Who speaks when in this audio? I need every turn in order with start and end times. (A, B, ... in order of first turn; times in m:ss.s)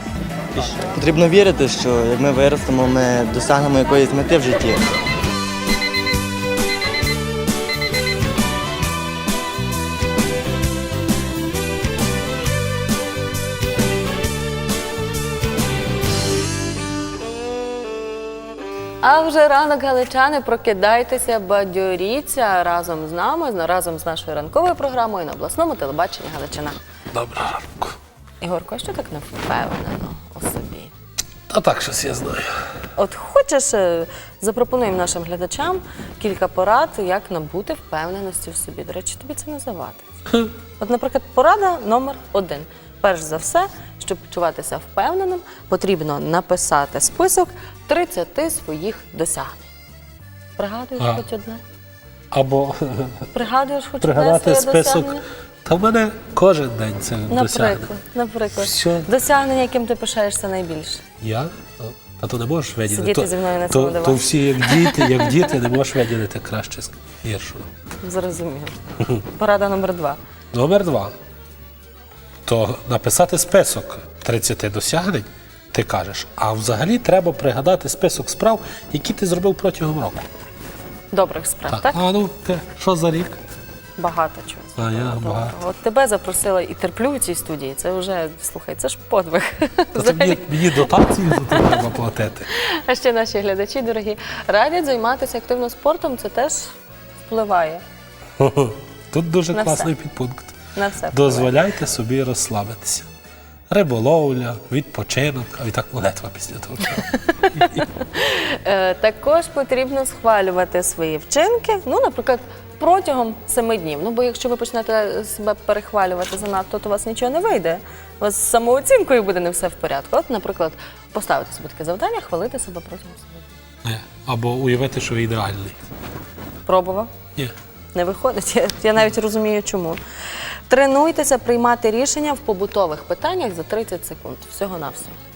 0:00.6-0:04.9 A
0:19.0-0:26.8 B
0:27.1-0:28.0 C
0:28.4-0:30.9 B
0:31.5-0:32.5 C
0:33.0-0:40.1 B
0:40.8-0:49.7 B
0:50.6-0:51.6 B
0:51.0-0:51.2 C
0:52.3-0:53.3 C
0:53.3-0:55.2 B
0:54.0-0:57.9 C
0:57.3-1:01.0 B
0:58.6-0:59.1 C
1:01.2-1:07.7 C
1:02.9-1:05.5 B
1:08.0-1:08.8 B
1:09.3-1:10.2 B
1:10.5-1:11.1 C
1:12.5-1:20.2 C
1:21.1-1:22.0 B
1:21.7-1:23.4 C
1:24.0-1:31.8 B
1:24.8-1:25.5 C
1:30.0-1:32.4 C
1:32.5-1:37.8 B
1:38.4-1:40.6 C
1:39.5-1:39.9 B
1:40.8-1:41.6 B
1:41.1-1:43.1 C
1:43.7-1:47.8 C
1:47.3-2:03.5 B
2:03.8-2:05.8 C
2:06.7-2:07.1 B
2:07.9-2:10.0 B
2:10.7-2:15.2 B